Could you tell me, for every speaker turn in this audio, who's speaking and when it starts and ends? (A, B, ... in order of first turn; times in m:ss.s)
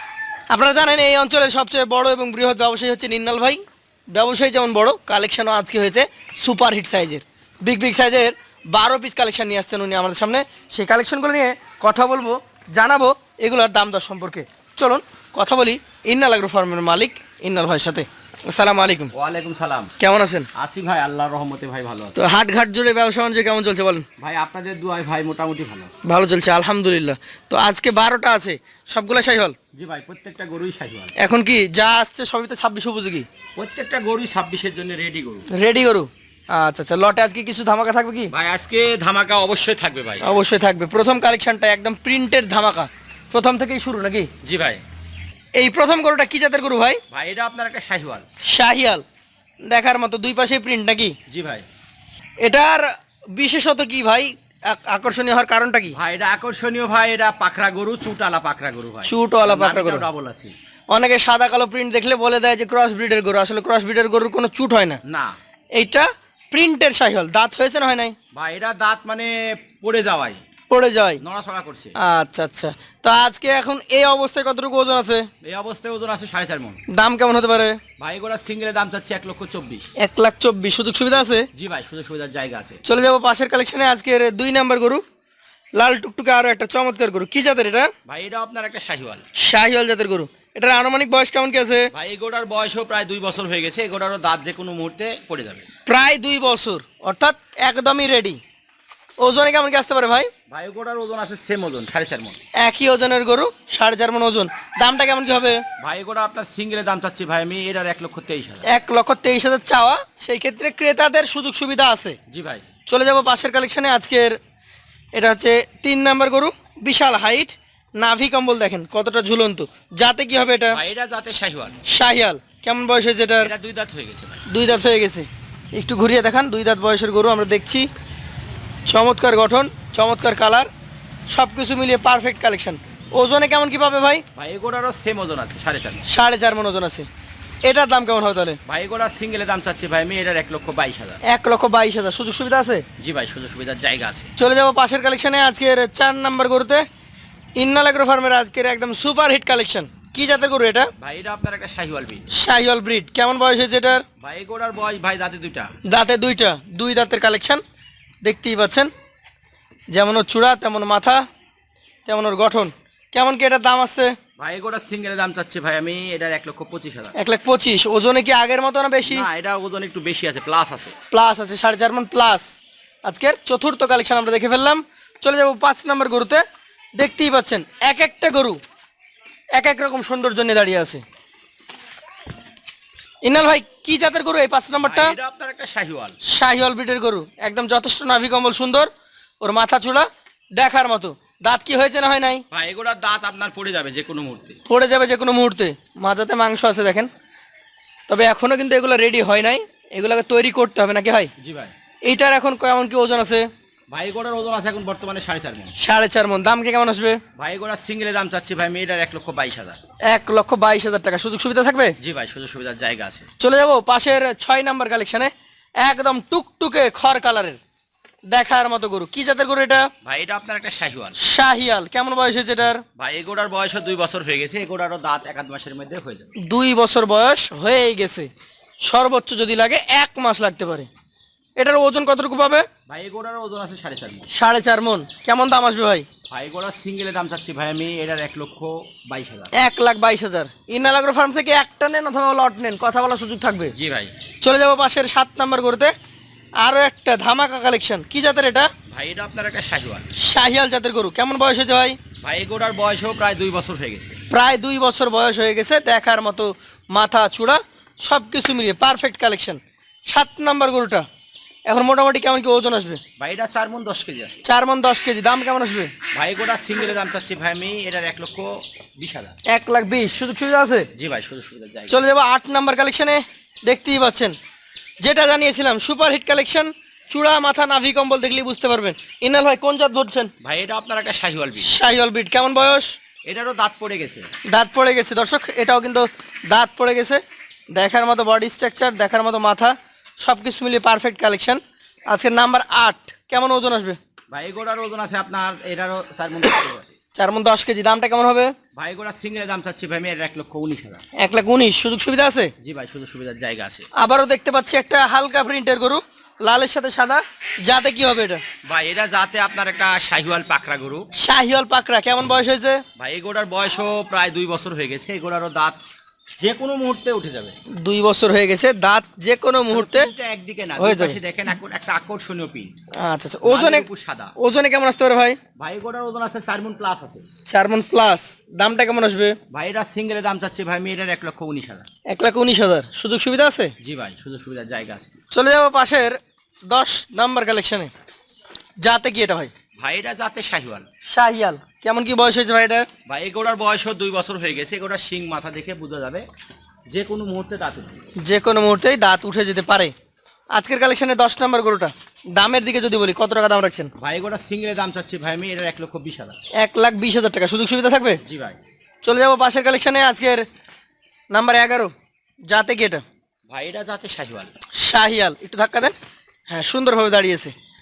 0:00.5-0:19.1 A
0:19.1-0:19.9 B
0:20.0-0:20.5 A
0:20.6-0:22.2 B
0:22.2-0:24.0 A
0:24.2-0:25.9 B
0:26.0-0:29.5 A
0:29.7-0:31.1 B
0:31.2-0:33.3 A
0:33.6-0:35.4 B
0:35.5-0:38.3 A
0:38.3-0:40.3 B
0:40.2-0:44.3 A
0:44.4-0:44.8 B
0:45.6-0:47.0 A
0:47.1-0:48.2 B
0:48.4-0:49.0 A
0:49.6-0:51.1 A
0:51.3-0:51.6 B
0:52.4-0:52.8 A
0:53.4-0:56.0 A
0:55.9-1:00.6 B
0:59.0-1:00.0 A
1:00.9-1:05.0 A
1:05.0-1:05.4 B
1:05.7-1:08.2 A
1:08.3-1:10.4 B
1:10.7-1:11.2 A
1:11.2-1:11.9 B
1:12.0-1:15.3 A
1:15.4-1:16.8 B
1:16.9-1:17.8 A
1:18.0-1:19.9 B
1:20.0-1:21.5 A
1:21.5-1:22.8 B
1:22.8-1:25.0 A
1:25.8-1:27.9 A
1:28.1-1:29.2 B
1:29.4-1:31.9 A
1:31.9-1:35.7 B
1:35.8-1:38.4 A
1:39.2-1:40.3 A
1:40.5-1:42.4 B
1:42.6-1:45.6 A
1:45.8-1:48.7 B
1:48.6-1:52.2 A
1:52.3-1:52.6 B
1:52.9-1:54.4 A
1:55.1-2:00.8 A
2:00.7-2:01.8 B
2:01.9-2:03.5 A
2:03.4-2:04.4 B
2:04.5-2:07.9 A
2:08.8-2:10.7 A
2:11.3-2:14.2 A
2:14.3-2:16.1 B
2:16.1-2:17.1 A
2:17.6-2:18.6 A
2:18.6-2:21.2 B
2:21.2-2:22.8 A
2:23.0-2:24.3 B
2:24.4-2:26.8 A
2:27.6-2:30.9 A
2:31.0-2:32.3 B
2:32.3-2:34.0 A
2:34.2-2:35.7 B
2:35.9-2:37.6 A
2:38.2-2:38.9 A
2:39.9-2:41.2 A
2:42.0-2:44.2 A
2:44.4-2:47.1 B
2:47.1-2:49.3 A
2:49.0-2:50.9 B
2:51.1-2:52.4 A
2:53.0-2:56.4 A
2:57.0-2:58.6 A
2:59.5-3:01.0 A
3:03.2-3:05.2 A
3:04.7-3:06.2 B
3:06.2-3:08.9 A
3:09.4-3:12.4 A
3:12.5-3:14.6 B
3:14.7-3:17.1 A
3:18.1-3:21.3 A
3:21.4-3:21.7 B
3:22.1-3:23.5 A
3:23.9-3:25.7 B
3:25.8-3:27.2 A
3:27.4-3:29.8 B
3:30.1-3:32.0 A
3:32.0-3:33.3 B
3:33.4-3:37.6 A
3:38.3-3:39.9 A
3:40.0-3:41.2 B
3:41.2-3:42.8 A
3:43.0-3:46.3 B
3:46.4-3:48.3 A
3:48.8-3:50.9 A
3:51.6-3:52.6 A
3:52.9-3:54.3 B
3:54.3-3:56.1 A
3:56.3-3:59.5 B
3:59.5-4:03.7 A
4:03.7-4:04.1 B
4:04.4-4:05.9 A
4:06.6-4:08.7 A
4:08.9-4:10.1 B
4:10.2-4:12.0 A
4:12.2-4:14.2 B
4:14.3-4:21.0 A
4:21.7-4:23.0 A
4:23.2-4:24.4 B
4:24.4-4:25.9 A
4:26.1-4:29.3 B
4:29.5-4:30.9 A
4:31.0-4:32.0 B
4:31.9-4:34.3 A
4:35.0-4:40.3 A
4:40.4-4:41.7 B
4:41.6-4:42.9 A
4:43.2-4:44.3 B
4:44.5-4:47.2 A
4:47.7-4:51.6 A
4:52.1-4:54.0 A
4:54.3-4:56.9 B
4:57.2-4:58.5 A
4:58.8-5:01.0 B
5:01.2-5:02.5 A
5:02.6-5:03.9 B
5:04.0-5:08.4 A
5:08.6-5:11.1 B
5:11.2-5:12.8 A
5:13.0-5:15.8 B
5:16.4-5:17.5 B
5:17.8-5:20.1 A
5:19.7-5:22.7 B
5:20.8-5:21.2 A
5:23.0-5:25.4 A
5:23.4-5:24.3 B
5:25.6-5:27.3 B
5:27.5-5:29.4 A
5:29.5-5:31.9 B
5:32.1-5:33.7 A
5:33.8-5:35.1 B
5:35.3-5:36.2 A
5:36.7-5:37.9 A
5:38.8-5:39.5 A
5:39.8-5:40.9 B
5:41.1-5:42.9 A
5:43.1-5:46.2 B
5:46.9-5:48.0 B
5:48.2-5:49.9 A
5:50.5-5:53.9 A
5:54.0-5:56.4 B
5:56.6-5:58.2 A
5:58.2-5:58.6 B
5:59.0-6:00.4 A
6:01.3-6:01.9 A
6:02.5-6:03.0 A
6:03.5-6:04.5 B
6:04.8-6:05.9 A
6:06.5-6:07.5 A